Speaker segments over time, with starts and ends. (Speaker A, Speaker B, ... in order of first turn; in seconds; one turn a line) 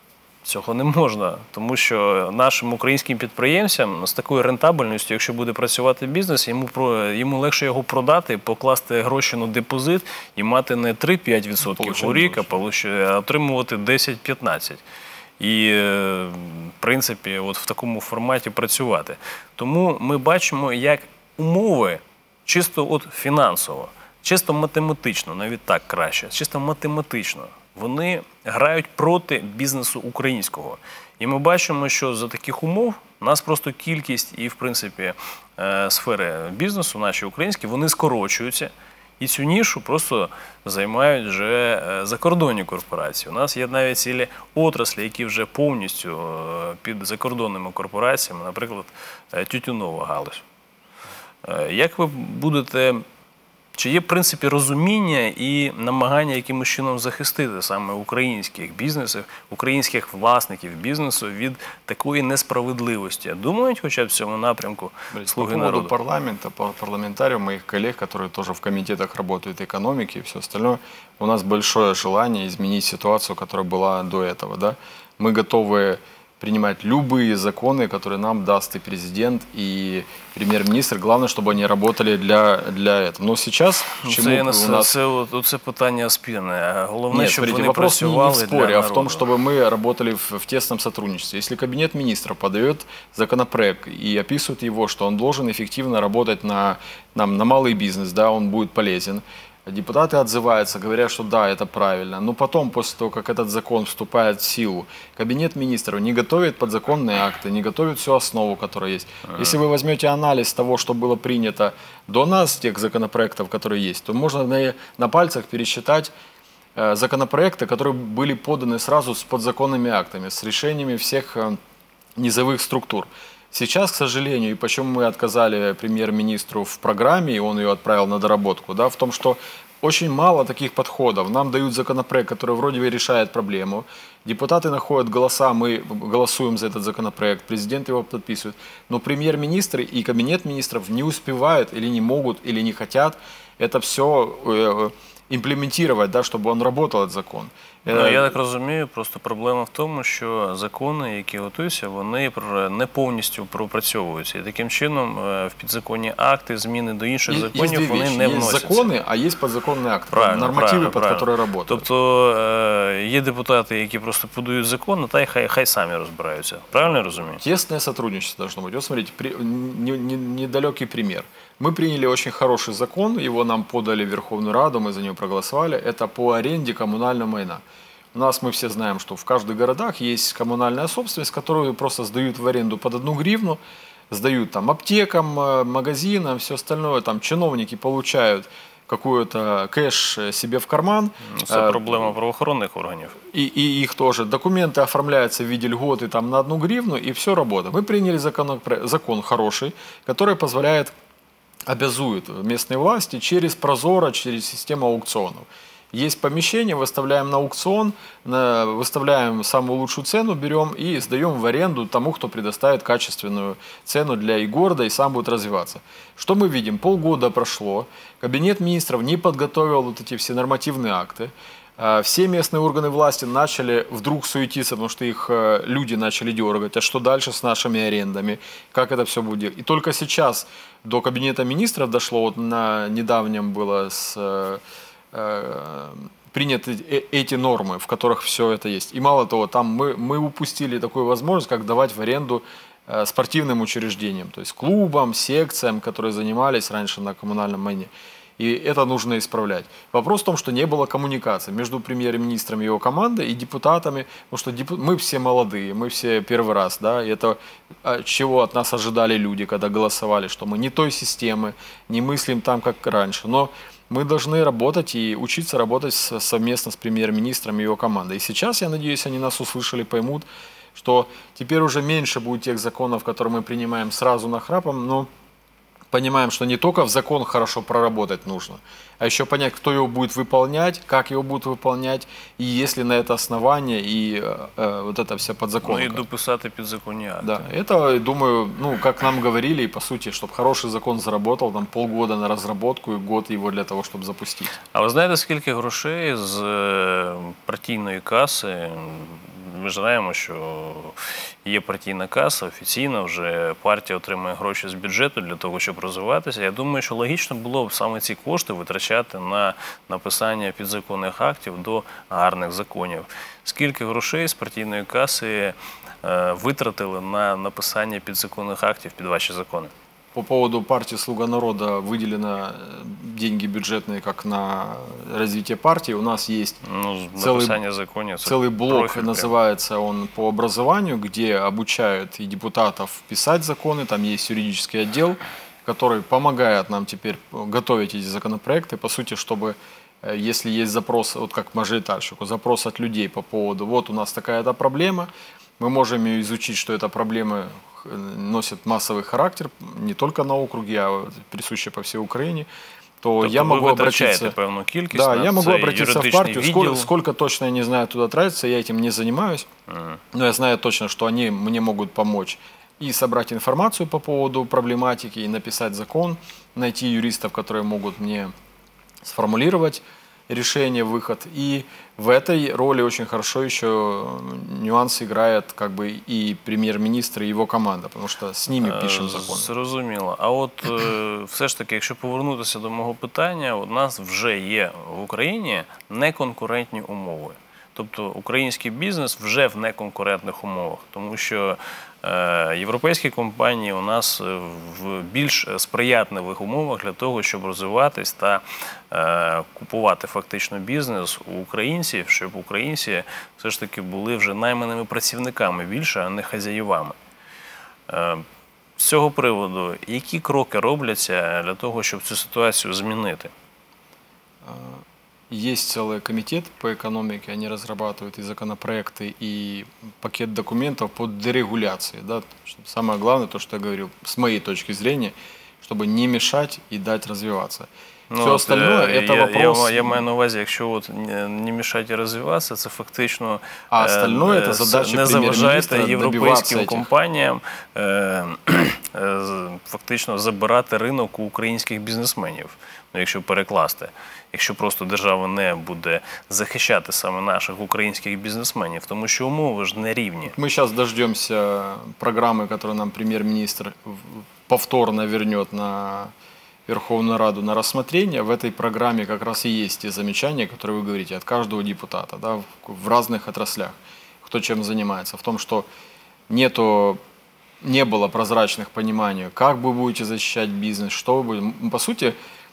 Speaker A: 0.4-14.8
Speaker B: 11.6-12.5
Speaker A: 15.4-50.4
Speaker A: 51.4-53.0
Speaker A: 53.7-65.9
Speaker B: 65.1-85.0
Speaker A: 84.0-89.2
Speaker B: 87.1-116.1
Speaker A: 109.3-109.5
Speaker B: 116.7-121.6
Speaker B: 122.2-148.3
Speaker A: 147.9-158.9
Speaker B: 157.3-161.8
Speaker A: 160.1-167.4
Speaker B: 167.4-177.6
Speaker B: 178.1-192.1
Speaker A: 191.2-193.2
Speaker B: 193.3-200.9
Speaker B: 201.7-234.6
Speaker B: 235.1-275.1
Speaker B: 275.9-286.0
Speaker A: 285.6-287.4
Speaker B: 287.2-294.6
Speaker A: 294.7-319.7
Speaker B: 320.1-326.6
Speaker A: 326.6-329.3
Speaker B: 327.2-327.6
Speaker B: 328.2-352.5
Speaker B: 353.0-354.4
Speaker A: 353.2-356.9
Speaker B: 354.9-359.5
Speaker A: 359.7-360.0
Speaker B: 360.1-368.3
Speaker B: 369.0-379.5
Speaker A: 378.6-406.9
Speaker A: 407.9-408.2
Speaker A: 408.8-413.3
Speaker B: 414.4-427.7
Speaker A: 428.1-450.4
Speaker B: 428.2-430.0
Speaker B: 433.7-436.9
Speaker B: 450.3-456.1
Speaker B: 456.7-465.7
Speaker B: 466.3-467.0
Speaker B: 467.6-472.2